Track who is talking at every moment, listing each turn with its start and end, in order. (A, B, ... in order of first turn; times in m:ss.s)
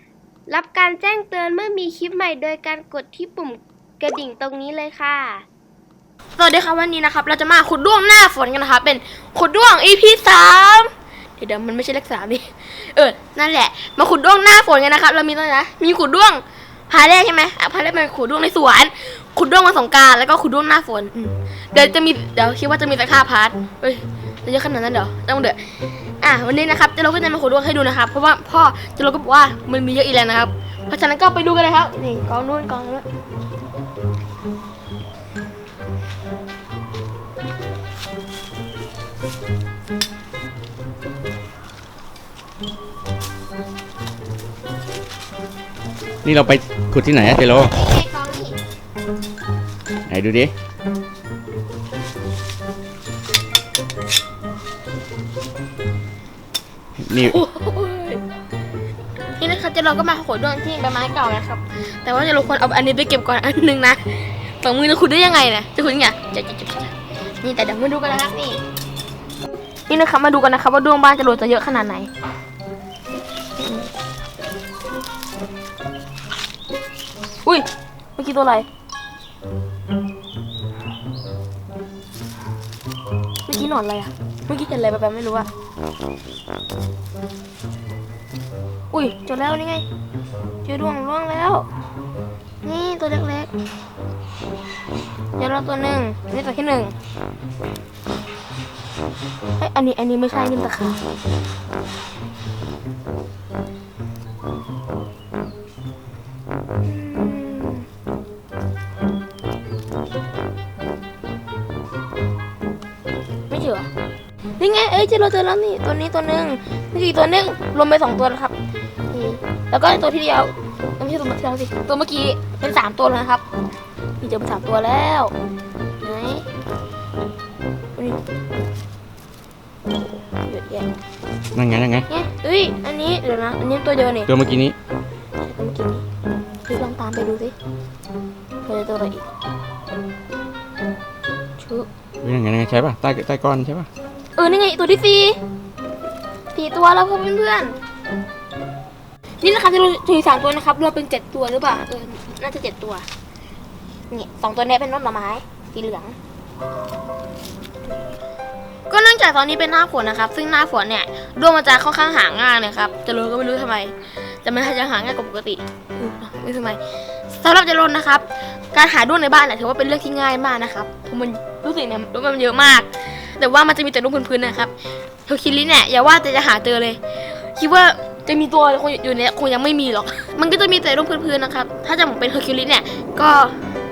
0:00.5-0:05.4 A
0:06.4-0:25.6 B
0:26.2-0:33.0 B
0:46.2-0:47.8 C
0:47.9-0:48.5 A
0:50.1-0:50.5 C
0:57.0-0:57.4 C
0:57.2-0:58.2 B
0:59.3-1:08.6 B
1:09.9-1:12.1 B
1:13.6-1:13.9 B
1:17.4-1:18.7 B
1:23.5-1:25.5 B
1:28.9-1:29.9 B
1:30.6-1:31.6 B
1:32.6-1:33.5 B
1:35.4-1:36.9 B
1:39.6-1:41.0 B
1:46.8-1:47.8 B
1:53.5-1:53.9 B
1:54.6-1:58.5 B
1:59.1-2:03.4 B
2:04.2-2:05.3 B
2:06.0-2:06.4 B
2:10.4-2:10.9 B
2:11.5-2:12.1 C
2:12.1-2:14.3 B
2:14.3-2:14.8 C
2:15.4-2:16.0 B
2:16.7-2:17.5 B
2:18.6-2:19.3 B
2:21.6-2:21.9 B
2:22.2-2:23.9 C
2:24.4-2:25.4 B
2:26.5-2:27.8 B
2:29.4-2:33.0 B
2:34.1-2:36.2 B
2:38.9-2:46.8 B
2:47.3-2:54.7 B
2:55.2-2:57.0 B
2:57.5-3:03.5 B